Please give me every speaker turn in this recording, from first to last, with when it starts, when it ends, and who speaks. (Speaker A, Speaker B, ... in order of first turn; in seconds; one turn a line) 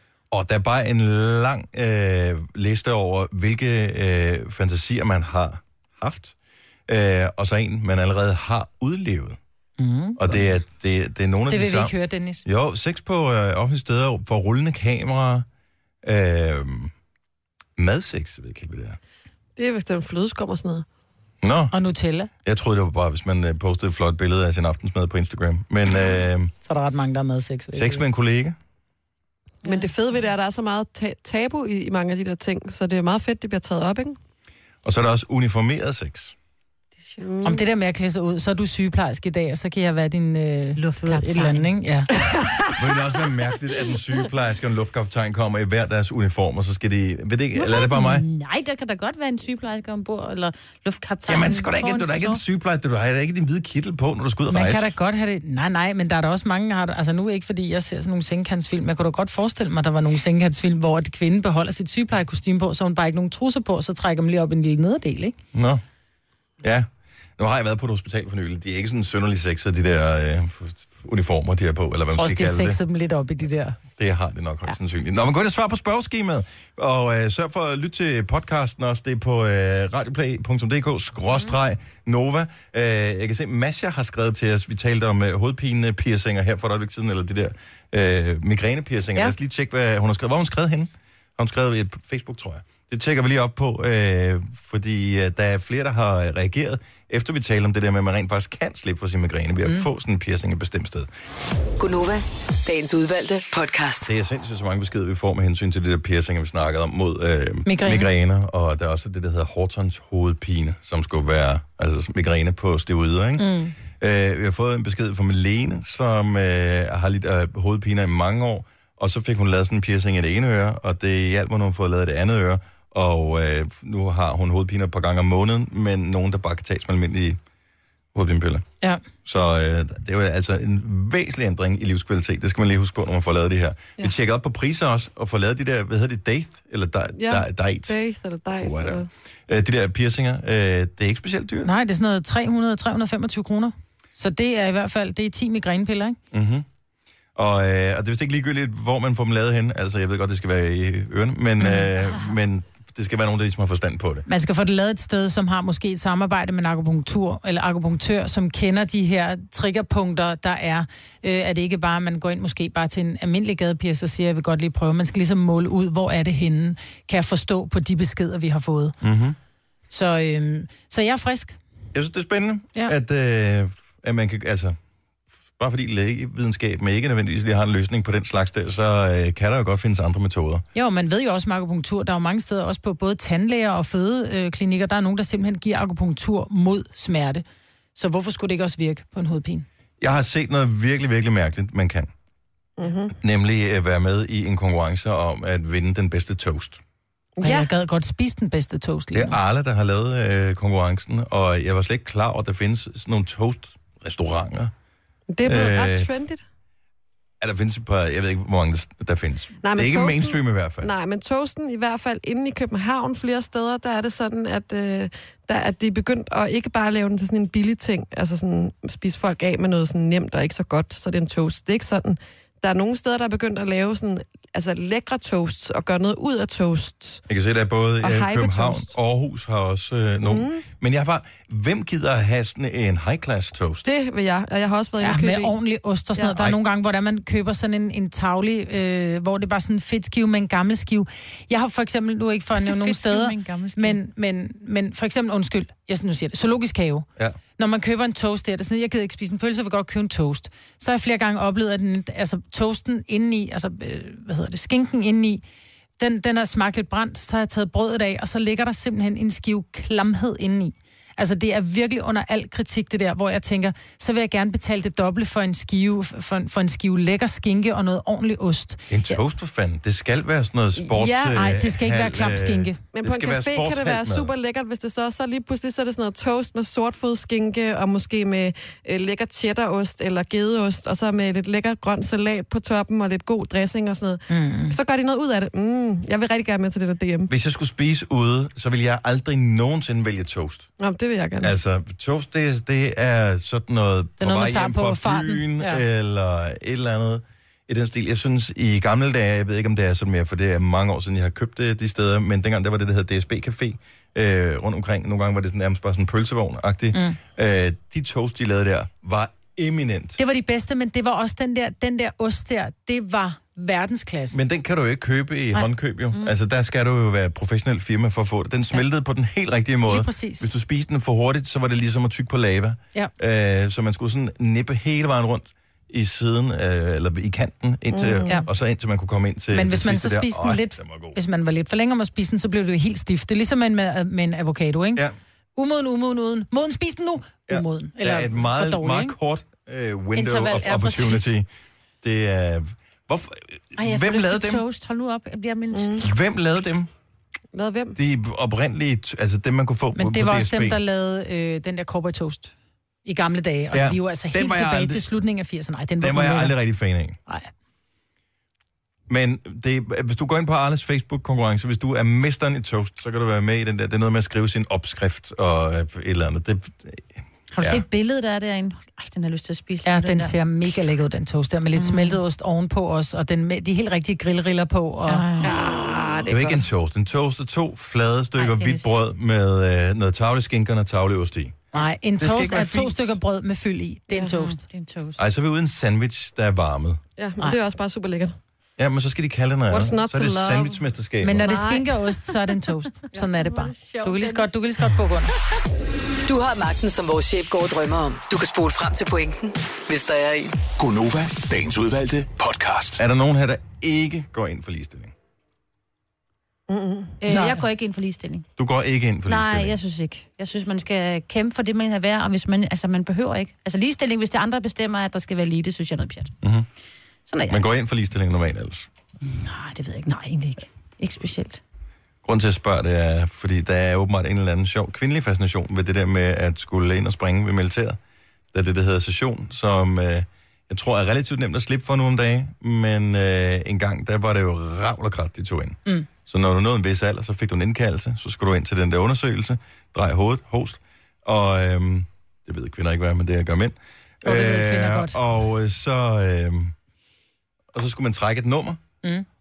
Speaker A: 0.3-6.3
Speaker A: 6.9-9.4
Speaker B: 9.8-10.5
Speaker A: 10.2-15.5
Speaker B: 11.5-12.5
Speaker A: 16.0-16.9
Speaker A: 17.8-19.0
Speaker C: 19.6-20.9
Speaker A: 21.4-21.7
Speaker B: 21.7-22.3
Speaker A: 22.4-26.5
Speaker B: 26.6-28.1
Speaker A: 27.7-28.6
Speaker C: 29.6-34.2
Speaker A: 34.8-36.4
Speaker C: 37.2-37.6
Speaker B: 37.4-42.3
Speaker D: 40.8-41.7
Speaker A: 42.8-48.2
Speaker D: 47.6-52.4
Speaker A: 51.3-54.9
Speaker B: 54.5-65.4
Speaker A: 65.5-65.8
Speaker A: 66.6-72.8
Speaker B: 72.1-73.8
Speaker A: 74.0-101.1
Speaker E: 101.8-104.1
Speaker A: 104.0-127.4
Speaker B: 107.7-108.1
Speaker B: 113.4-113.8
Speaker A: 128.1-128.7
Speaker A: 129.2-138.0
Speaker C: 137.2-139.1
Speaker A: 138.6-141.7
Speaker B: 141.6-146.2
Speaker A: 146.3-146.7
Speaker A: 147.4-154.2
Speaker B: 154.3-168.9
Speaker A: 169.0-169.4
Speaker B: 169.9-171.6
Speaker A: 171.9-174.8
Speaker A: 175.6-180.7
Speaker B: 180.8-187.4
Speaker B: 188.0-189.7
Speaker A: 190.0-192.1
Speaker C: 192.8-193.1
Speaker A: 193.2-196.8
Speaker C: 197.4-197.7
Speaker B: 197.4-199.4
Speaker A: 199.1-204.7
Speaker C: 205.3-206.4
Speaker A: 205.4-206.1
Speaker A: 207.4-210.9
Speaker C: 209.6-227.2
Speaker A: 227.3-233.9
Speaker C: 228.0-228.9
Speaker C: 230.2-230.6
Speaker C: 233.8-235.6
Speaker B: 235.0-247.1
Speaker D: 242.6-244.0
Speaker B: 247.6-255.4
Speaker B: 256.0-269.2
Speaker A: 268.9-274.3
Speaker C: 270.8-271.4
Speaker B: 271.3-272.8
Speaker C: 272.9-287.3
Speaker B: 284.3-284.8
Speaker A: 287.3-290.7
Speaker C: 290.8-291.5
Speaker A: 291.4-310.2
Speaker B: 294.2-295.8
Speaker B: 306.9-307.2
Speaker B: 310.2-314.4
Speaker A: 314.3-331.2
Speaker B: 319.9-320.5
Speaker C: 327.9-328.4
Speaker B: 329.5-335.0
Speaker B: 335.6-339.1
Speaker A: 337.5-341.5
Speaker B: 340.2-341.3
Speaker A: 342.0-344.6
Speaker D: 343.8-346.1
Speaker C: 345.7-346.0
Speaker A: 346.0-346.9
Speaker C: 347.5-348.0
Speaker A: 348.0-350.8
Speaker B: 350.0-352.5
Speaker B: 353.1-356.6
Speaker A: 353.7-355.0
Speaker A: 356.0-357.2
Speaker A: 359.1-367.1
Speaker D: 367.5-370.4
Speaker B: 369.9-376.3
Speaker D: 371.8-372.2
Speaker D: 375.1-376.2
Speaker A: 376.3-381.6
Speaker D: 378.4-379.0
Speaker B: 381.7-384.6
Speaker A: 382.2-383.2
Speaker D: 384.3-385.2
Speaker A: 385.2-387.0
Speaker C: 387.2-388.4
Speaker A: 388.8-391.5
Speaker C: 389.7-390.8
Speaker B: 391.2-395.4
Speaker C: 391.4-391.9
Speaker D: 394.1-394.4
Speaker E: 396.3-400.6
Speaker F: 400.8-403.0
Speaker A: 403.0-405.1
Speaker C: 406.7-407.1
Speaker D: 407.2-408.5
Speaker B: 407.3-407.6
Speaker A: 408.6-409.8
Speaker D: 409.3-416.3
Speaker D: 417.3-417.6
Speaker A: 417.5-418.9
Speaker D: 419.2-421.6
Speaker A: 422.2-428.0
Speaker A: 428.5-446.7
Speaker B: 444.2-445.2
Speaker A: 447.7-448.8